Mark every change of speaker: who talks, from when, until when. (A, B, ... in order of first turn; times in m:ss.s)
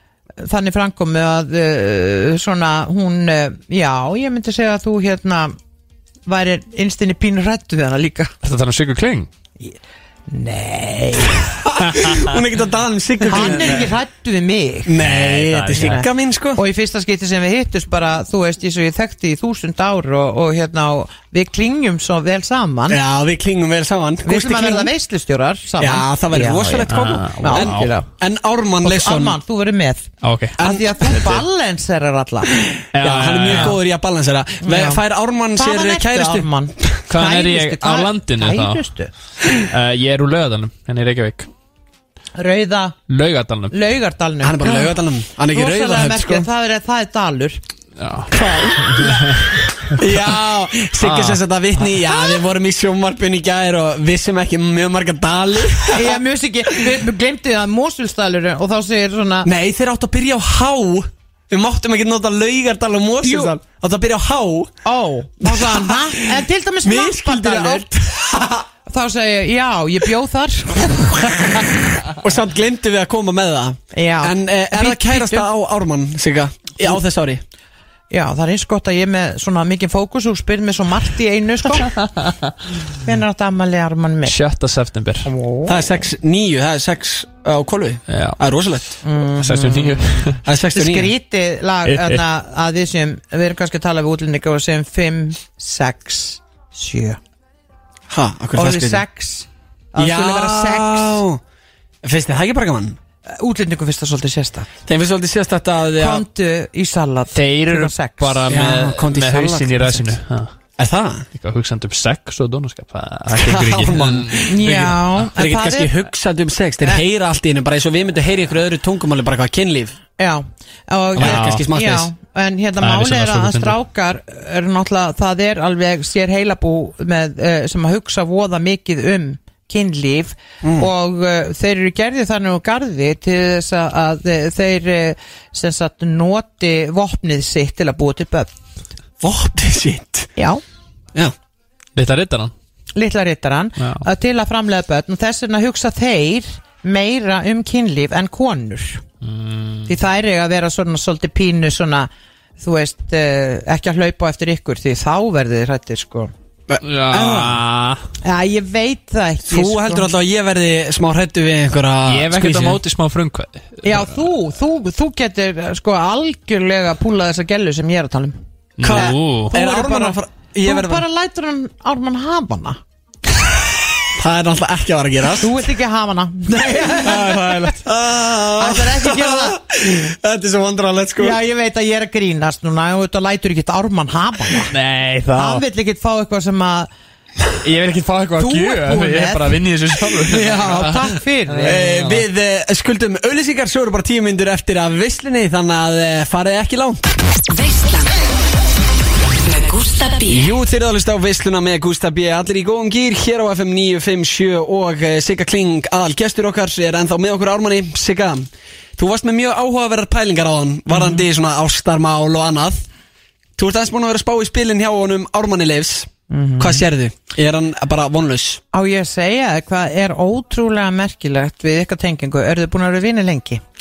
0:00.4-0:05.6 A
0:06.3-0:08.3 A
0:08.4-0:09.3 B
0:10.3-0:11.5 A
0:11.6-0:13.9 C
0:13.3-0:15.0 A
0:14.9-0:16.6 C
0:15.0-0:16.0 B
0:15.8-0:16.0 A
0:16.6-0:23.0 A
0:22.9-0:24.9 C
0:24.2-0:28.1 A
0:25.8-0:29.4 C
0:26.9-0:27.9 B
0:28.8-0:32.5 A
0:30.2-0:31.4 B
0:30.6-0:31.2 C
0:32.6-0:37.0 C
0:32.9-0:33.8 B
0:34.6-0:35.0 A
0:35.6-0:39.1 A
0:37.1-0:38.8 B
0:39.6-0:41.5 B
0:42.4-0:43.0 A
0:43.1-0:43.7 B
0:43.7-0:45.0 A
0:44.4-0:46.5 C
0:45.5-0:47.6 A
0:48.0-0:48.3 B
0:48.3-0:56.2 C
0:48.9-0:49.4 B
0:51.0-0:51.4 B
0:55.9-0:59.5 A
0:59.4-1:04.8 C
1:03.2-1:03.6 A
1:04.8-1:07.9 A
1:05.4-1:08.7 C
1:08.9-1:11.7 A
1:12.1-1:17.4 C
1:13.9-1:15.5 A
1:18.1-1:22.0 A
1:23.0-1:24.4 A
1:24.2-1:25.3 B
1:25.2-1:26.1 A
1:25.7-1:29.0 C
1:28.1-1:28.4 B
1:29.0-1:37.2 A
1:29.4-1:30.4 B
1:30.4-1:31.1 C
1:31.9-1:32.2 B
1:38.1-1:39.0 C
1:38.6-1:41.2 A
1:40.0-1:41.4 C
1:42.0-1:43.0 C
1:43.3-1:44.7 A
1:44.9-1:46.2 C
1:46.0-1:48.4 A
1:47.4-1:50.5 B
1:48.5-1:50.0 C
1:50.8-1:51.3 C
1:51.4-1:54.5 B
1:53.3-2:00.0 C
1:54.4-1:56.0 A
2:00.2-2:18.5 A
2:01.2-2:02.1 C
2:01.2-2:01.7 B
2:02.8-2:03.8 B
2:10.6-2:10.9 C
2:19.2-2:20.3 C
2:20.4-2:20.6 A
2:22.0-2:22.5 B
2:23.0-2:29.0 A
2:23.8-2:24.0 B
2:29.2-2:29.9 B
2:29.9-2:36.3 A
2:36.7-2:37.6 C
2:36.8-2:38.1 B
2:38.2-2:40.1 A
2:39.5-2:42.8 C
2:42.1-2:44.2 B
2:43.8-2:48.4 A
2:48.8-2:49.6 B
2:48.8-2:51.1 C
2:48.9-2:52.8 A
2:54.1-2:55.7 C
2:55.4-2:57.8 A
2:57.0-3:01.4 C
2:58.6-2:59.6 A
3:01.2-3:04.7 A
3:04.7-3:05.6 B
3:05.3-3:06.9 A
3:07.6-3:12.2 B
3:08.4-3:11.9 A
3:11.6-3:17.1 C
3:17.5-3:18.3 D
3:19.4-3:20.6 D
3:20.3-3:32.8 C
3:30.9-3:31.2 A
3:33.6-3:38.6 C
3:36.3-3:36.8 A
3:38.7-3:43.6 A